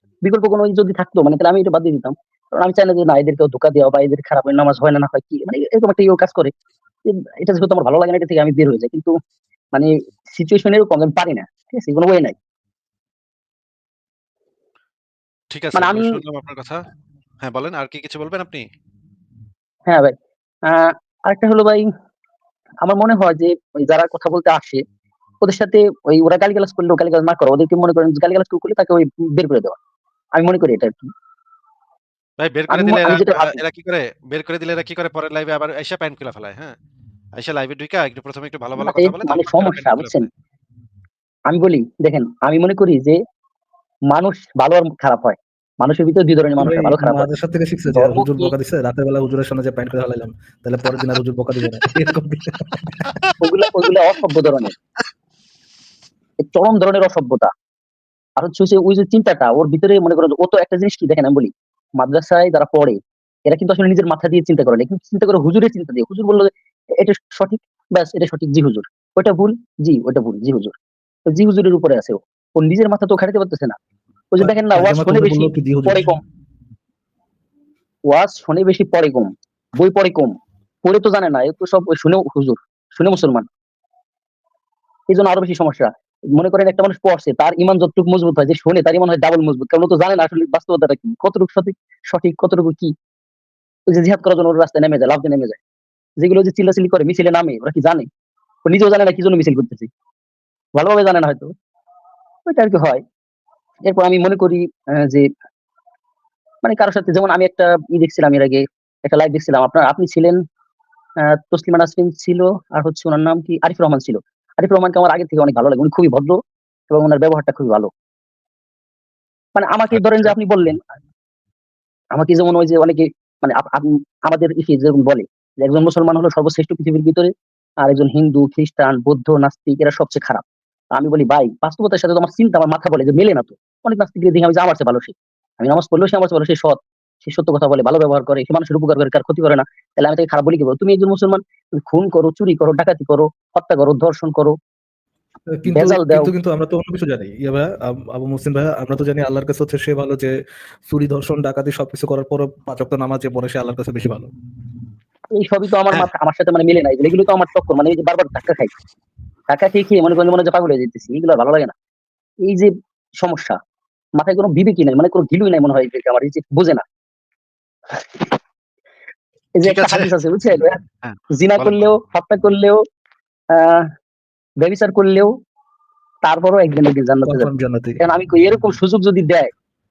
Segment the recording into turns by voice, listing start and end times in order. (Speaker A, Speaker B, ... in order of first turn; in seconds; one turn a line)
Speaker A: 0.2-6.5
Speaker A: 7.1-9.2
Speaker A: 9.7-12.3
Speaker B: 15.5-16.8
Speaker A: 15.8-16.2
Speaker B: 17.4-18.6
Speaker A: 19.9-20.1
Speaker A: 20.7-21.9
Speaker A: 22.8-24.8
Speaker A: 25.4-29.8
Speaker A: 30.3-31.1
Speaker B: 32.4-36.8
Speaker A: 32.7-33.6
Speaker B: 37.4-40.3
Speaker A: 38.8-40.3
Speaker A: 41.5-43.2
Speaker A: 44.1-47.3
Speaker C: 46.6-53.1
Speaker A: 47.9-48.5
Speaker A: 53.4-54.8
Speaker A: 56.4-57.5
Speaker A: 58.4-70.8
Speaker A: 71.3-73.8
Speaker A: 74.3-76.2
Speaker C: 74.4-76.1
Speaker A: 78.1-83.5
Speaker A: 85.1-92.9
Speaker A: 93.9-95.6
Speaker A: 96.2-98.1
Speaker A: 98.7-99.9
Speaker A: 100.8-101.5
Speaker A: 102.5-103.0
Speaker A: 103.8-105.3
Speaker A: 106.6-110.4
Speaker A: 111.2-116.4
Speaker A: 116.9-117.9
Speaker A: 119.6-120.8
Speaker A: 122.1-144.6
Speaker C: 145.5-150.3
Speaker A: 145.7-146.3
Speaker C: 150.9-154.3
Speaker A: 155.3-158.7
Speaker A: 159.5-161.7
Speaker A: 162.4-163.6
Speaker A: 164.2-166.8
Speaker A: 167.9-168.4
Speaker A: 169.6-170.8
Speaker B: 169.6-170.1
Speaker B: 171.0-172.0
Speaker A: 171.3-172.8
Speaker A: 173.5-173.9
Speaker A: 174.6-175.3
Speaker A: 176.2-177.5
Speaker C: 177.2-178.0
Speaker A: 178.0-179.5